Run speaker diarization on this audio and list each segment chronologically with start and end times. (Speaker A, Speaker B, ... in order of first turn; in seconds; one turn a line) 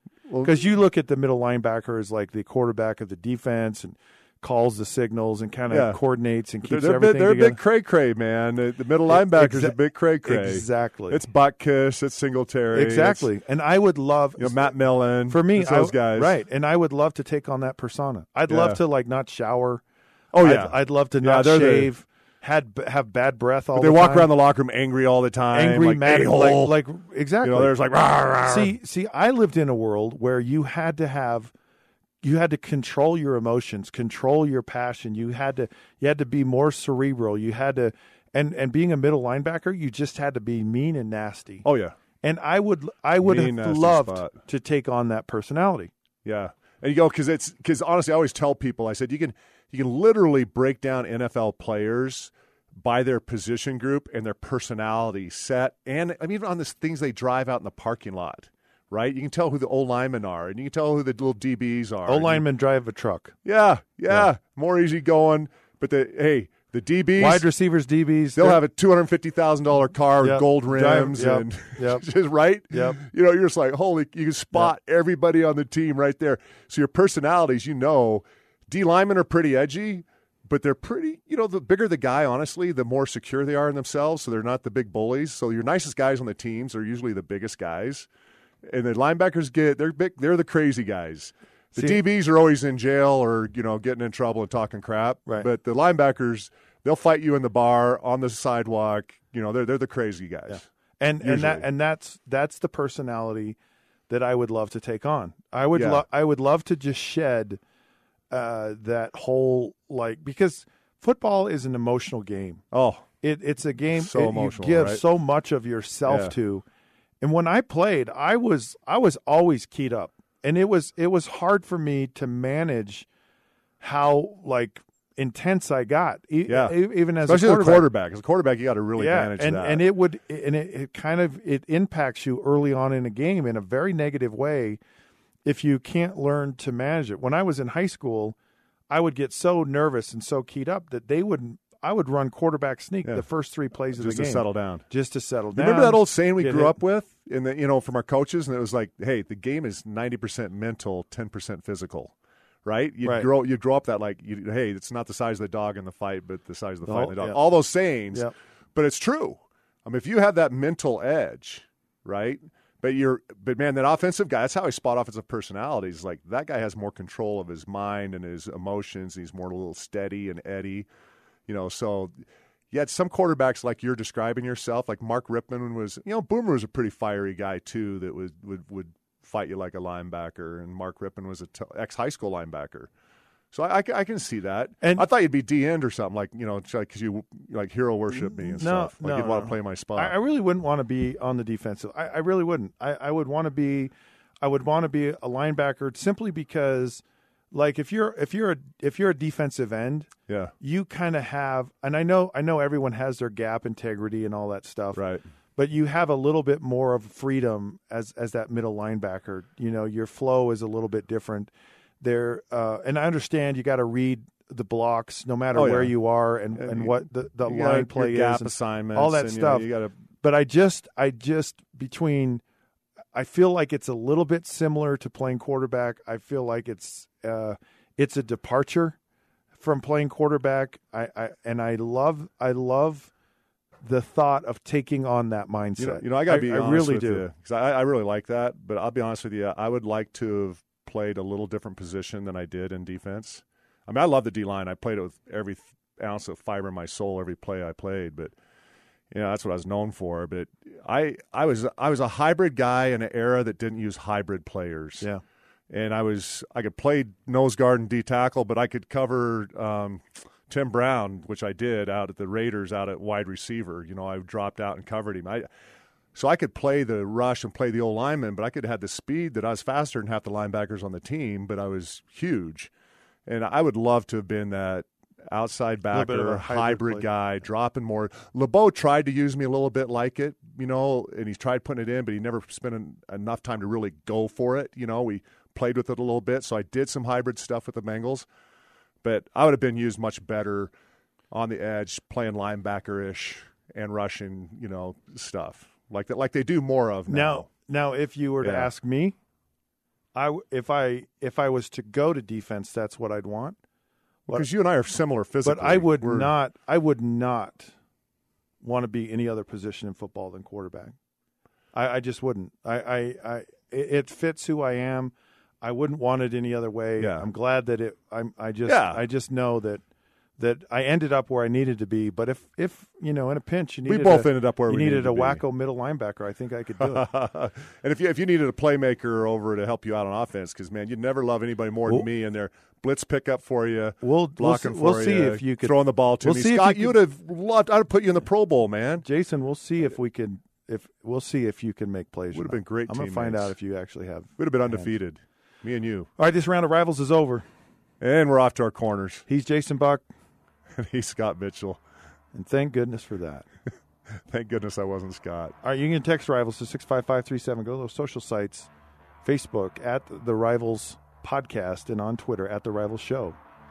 Speaker A: 0.3-0.6
Speaker B: 0.4-7.6
Speaker A: 5.7-6.0
Speaker A: 6.6-13.3
Speaker B: 9.1-11.2
Speaker B: 12.7-19.8
Speaker A: 14.4-16.4
Speaker A: 18.5-18.8
Speaker A: 20.3-21.9
Speaker B: 20.4-24.3
Speaker A: 23.8-26.8
Speaker B: 25.5-27.8
Speaker A: 27.4-28.8
Speaker B: 28.4-31.5
Speaker B: 32.2-41.6
Speaker A: 41.6-42.0
Speaker B: 42.2-45.9
Speaker A: 43.2-44.4
Speaker A: 46.2-62.5
Speaker B: 62.0-63.4
Speaker A: 63.5-67.5
Speaker B: 67.2-68.6
Speaker A: 68.4-88.1
Speaker B: 70.2-72.0
Speaker B: 72.7-73.0
Speaker A: 88.7-100.7
Speaker B: 91.8-92.0
Speaker B: 100.5-103.6
Speaker A: 101.2-101.7
Speaker B: 104.1-107.6
Speaker A: 105.7-106.0
Speaker B: 108.3-112.6
Speaker A: 112.7-113.0
Speaker B: 113.2-116.6
Speaker A: 113.9-115.0
Speaker A: 116.1-116.3
Speaker B: 117.2-123.1
Speaker B: 123.8-127.9
Speaker A: 126.5-129.8
Speaker B: 129.0-134.8
Speaker B: 135.4-138.4
Speaker B: 138.9-146.8
Speaker A: 143.9-144.8
Speaker A: 145.5-152.1
Speaker A: 152.6-170.9
Speaker B: 153.0-153.3
Speaker B: 156.8-157.4
Speaker A: 171.5-172.1
Speaker A: 172.7-182.9
Speaker A: 183.5-190.2
Speaker B: 184.8-185.1
Speaker B: 188.1-205.0
Speaker A: 200.3-200.5
Speaker A: 204.9-205.2
Speaker B: 205.6-222.4
Speaker A: 215.5-216.0
Speaker A: 216.6-220.0
Speaker B: 223.1-229.0
Speaker B: 229.5-233.1
Speaker B: 233.8-237.3
Speaker A: 235.8-248.3
Speaker A: 249.1-255.1
Speaker A: 255.7-265.5
Speaker A: 266.1-272.7
Speaker A: 273.3-288.2
Speaker B: 275.9-277.1
Speaker A: 289.0-290.7
Speaker A: 291.3-297.5
Speaker B: 297.1-299.1
Speaker A: 298.4-298.7
Speaker B: 300.1-303.6
Speaker A: 304.3-306.3
Speaker B: 305.4-307.7
Speaker B: 308.6-310.9
Speaker B: 311.7-319.8
Speaker A: 317.0-317.3
Speaker A: 318.6-319.0
Speaker B: 320.4-327.1
Speaker A: 323.9-325.4
Speaker A: 326.8-339.1
Speaker B: 334.0-337.0
Speaker B: 339.0-344.9
Speaker A: 342.3-343.6
Speaker A: 344.4-346.1
Speaker B: 346.2-347.4
Speaker A: 348.0-349.2
Speaker B: 349.3-350.1
Speaker A: 350.8-351.8
Speaker B: 352.3-353.5
Speaker A: 354.3-355.5
Speaker B: 355.6-358.7
Speaker B: 359.2-363.4